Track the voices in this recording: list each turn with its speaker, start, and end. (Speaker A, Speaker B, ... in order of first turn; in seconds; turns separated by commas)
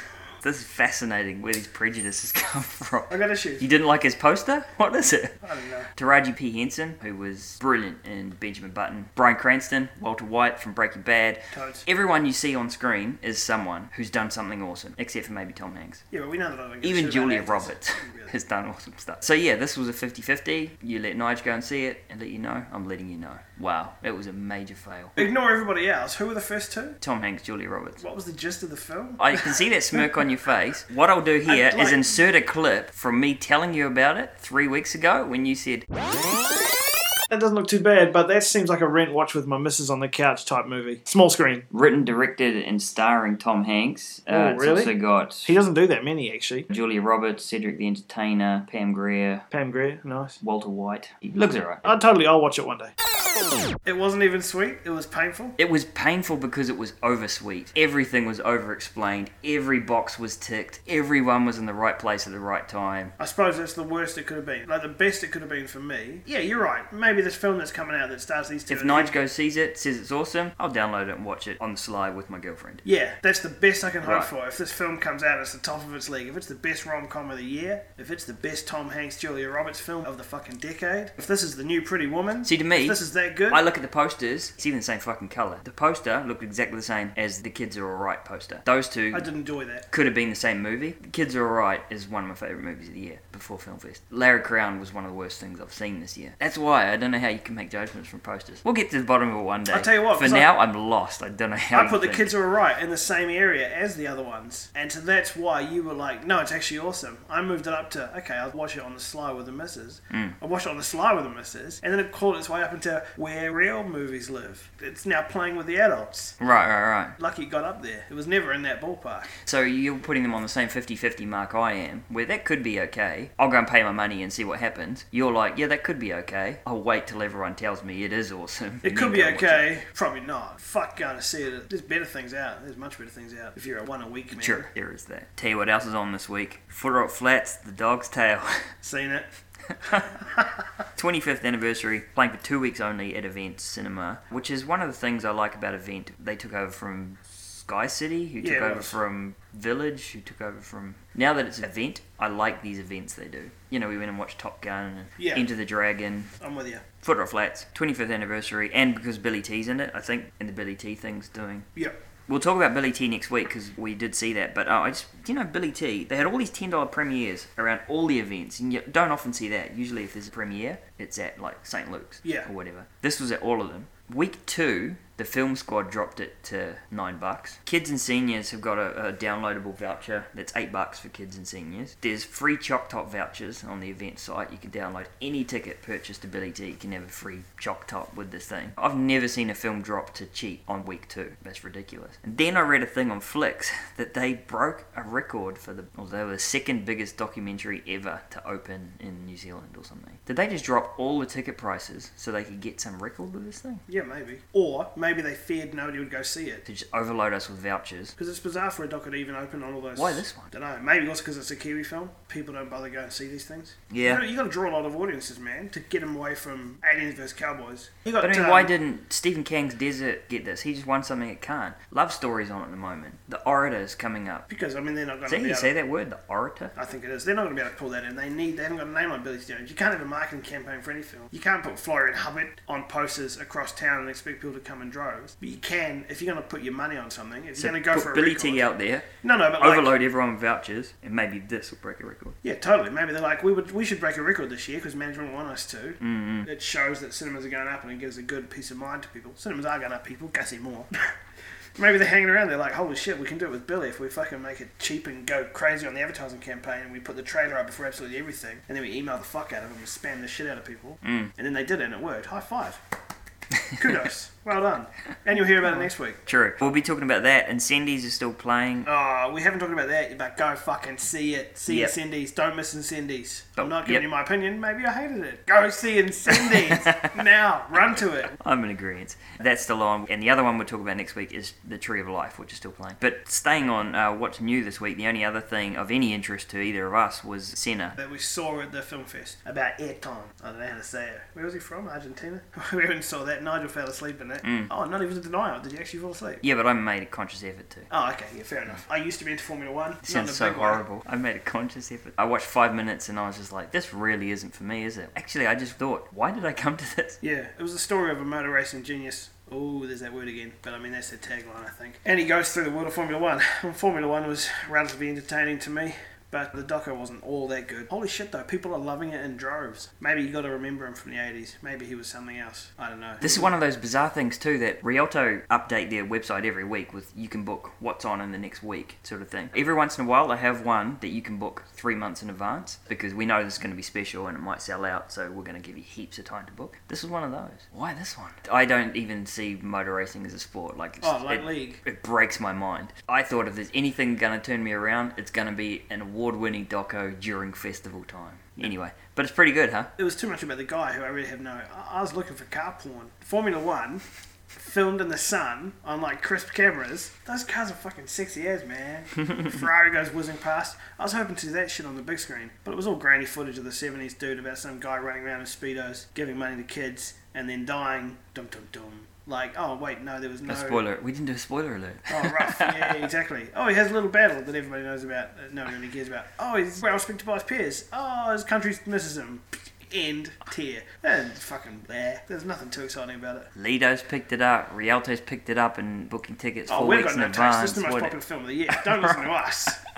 Speaker A: 0.4-5.3, Speaker B: 3.1-3.6, Speaker B: 5.4-5.9, Speaker A: 5.9-16.0, Speaker B: 11.5-11.8, Speaker B: 16.1-18.3, Speaker A: 16.8-25.2, Speaker B: 25.2-27.0, Speaker A: 27.0-28.0, Speaker B: 28.0-30.1, Speaker A: 29.2-35.8, Speaker B: 31.4-32.0, Speaker B: 37.3-41.6, Speaker A: 41.7-45.5, Speaker B: 44.3-46.7, Speaker A: 46.7-49.5, Speaker B: 49.5-50.4, Speaker A: 50.4-51.9, Speaker B: 51.8-52.9, Speaker B: 53.8-55.5, Speaker A: 55.6-63.1, Speaker B: 63.2-69.2, Speaker A: 68.7-72.8, Speaker B: 72.8-83.6, Speaker A: 74.0-74.3, Speaker A: 82.4-89.3, Speaker B: 89.1-89.8, Speaker A: 89.9-102.3, Speaker B: 99.7-100.5, Speaker B: 101.7-116.4, Speaker A: 110.1-110.3, Speaker A: 116.4-117.2, Speaker B: 117.2-119.3, Speaker A: 119.4-129.7, Speaker B: 128.8-134.7, Speaker A: 134.3-138.7, Speaker B: 138.8-139.3, Speaker B: 139.8-140.6, Speaker A: 140.9-156.3, Speaker B: 148.4-149.0, Speaker B: 155.2-155.4, Speaker B: 156.4-156.8, Speaker A: 157.0-161.7, Speaker A: 162.3-203.8, Speaker B: 203.9-206.6, Speaker A: 206.6-208.2, Speaker B: 208.2-218.7, Speaker A: 209.9-210.5, Speaker A: 213.9-214.2, Speaker A: 218.2-224.5, Speaker B: 224.5-225.7, Speaker A: 225.3-226.7, Speaker B: 226.7-238.7, Speaker A: 237.6-239.1, Speaker B: 239.2-239.9, Speaker A: 239.6-242.4, Speaker B: 242.4-250.9, Speaker A: 246.0-246.5, Speaker B: 251.8-262.8, Speaker A: 261.0-261.3, Speaker B: 263.7-266.2, Speaker A: 266.2-268.9, Speaker B: 268.8-278.3, Speaker A: 271.7-271.9, Speaker A: 273.6-274.0, Speaker A: 276.3-277.1, Speaker A: 278.3-288.0, Speaker B: 288.0-296.4, Speaker A: 294.4-294.7, Speaker A: 296.4-297.9, Speaker B: 297.9-300.8, Speaker A: 300.0-307.2, Speaker B: 307.2-323.5, Speaker A: 323.2-349.9, Speaker B: 341.0-341.8, Speaker B: 350.0-354.0, Speaker B: 354.6-370.8, Speaker A: 370.4-373.1, Speaker B: 372.1-383.5, Speaker A: 383.5-388.1, Speaker B: 386.7-389.8